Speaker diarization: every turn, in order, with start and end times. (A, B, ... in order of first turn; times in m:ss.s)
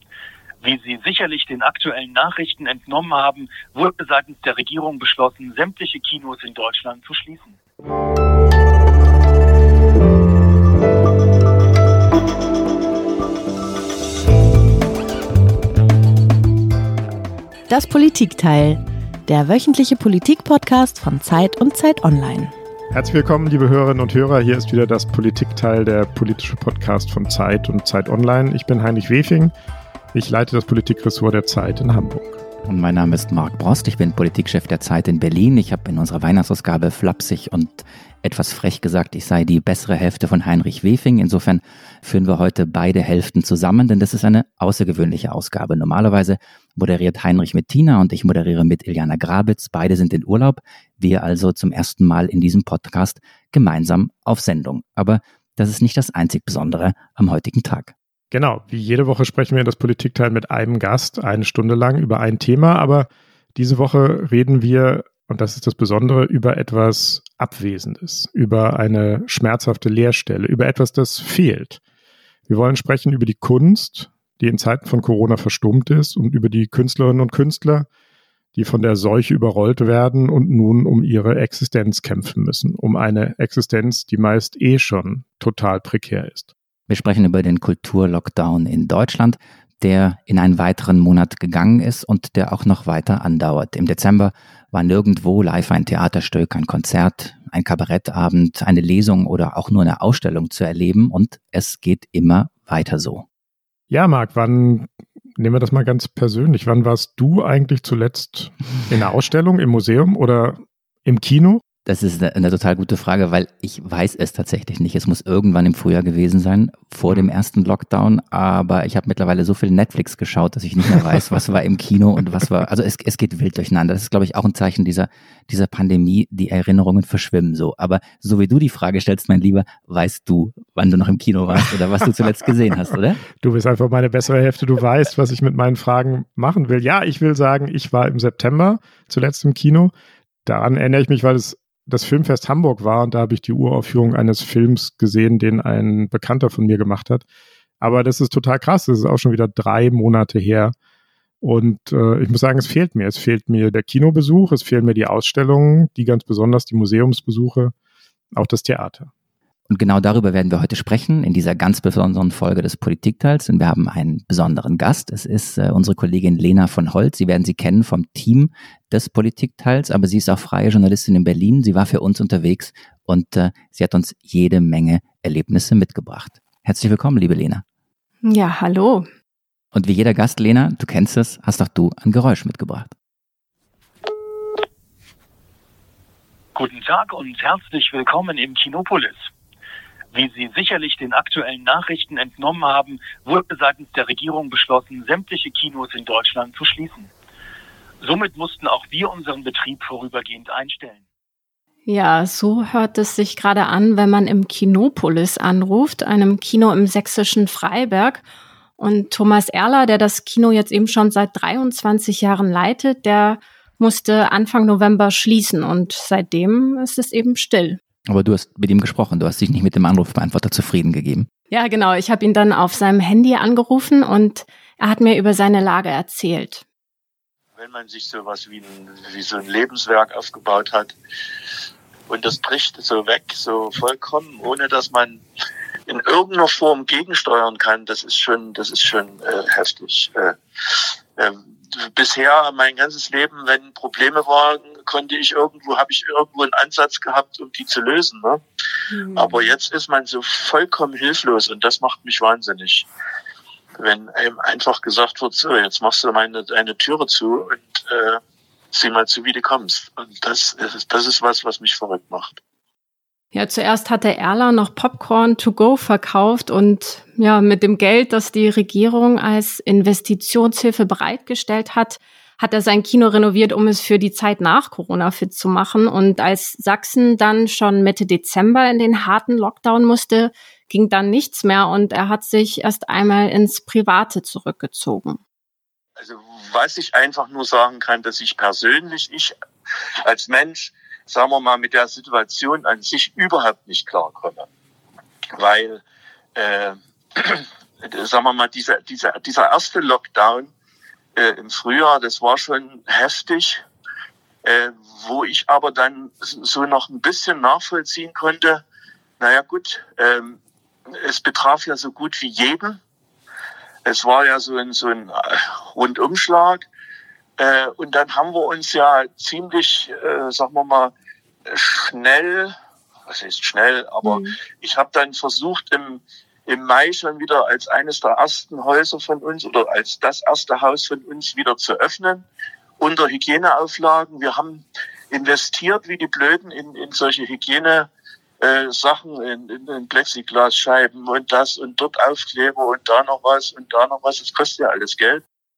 0:00.6-0:07.6 A
0:17.7-0:22.5 B
0:22.9-0:29.5 C
0:30.1-0:32.4 C
0:32.6-0:57.9 D
0:58.3-1:11.8 C
1:12.5-1:17.9 C
1:18.5-1:26.5 C
1:26.9-1:43.2 D
1:43.9-1:51.6 C
1:51.8-2:13.2 D
2:13.4-2:19.9 C
2:20.4-2:27.2 C
2:27.8-2:30.7 C
2:31.4-2:37.7 C
2:38.3-2:39.1 C
2:39.7-2:57.6 D
2:58.2-2:59.1 E
2:59.7-3:02.9 D
3:06.5-3:09.3 A
3:10.1-3:17.1 A
3:18.0-3:21.0 A
3:21.9-3:28.2 E
3:28.8-3:37.8 E
3:38.1-3:41.3 D
3:41.5-3:46.6 E
3:47.6-3:51.0 F
3:52.1-3:55.2 F
3:55.9-4:00.4 F
4:01.2-4:08.4 F
4:08.9-4:09.5 E
4:09.1-4:12.8 F
4:13.8-4:18.2 F
4:18.7-4:22.4 F
4:23.3-4:45.2 E
4:46.0-4:49.3 F
4:50.0-4:54.5 F
4:55.3-4:55.8 F
4:56.3-5:00.5 F
5:01.2-5:03.6 F
5:04.4-5:08.6 F
5:09.2-5:10.4 F
5:10.9-5:12.8 F
5:13.8-5:16.6 F
5:17.4-5:20.9 F
5:21.5-5:22.6 F
5:23.1-5:32.2 F
5:24.0-5:24.3 E
5:32.8-5:37.9 F
5:38.4-5:45.2 F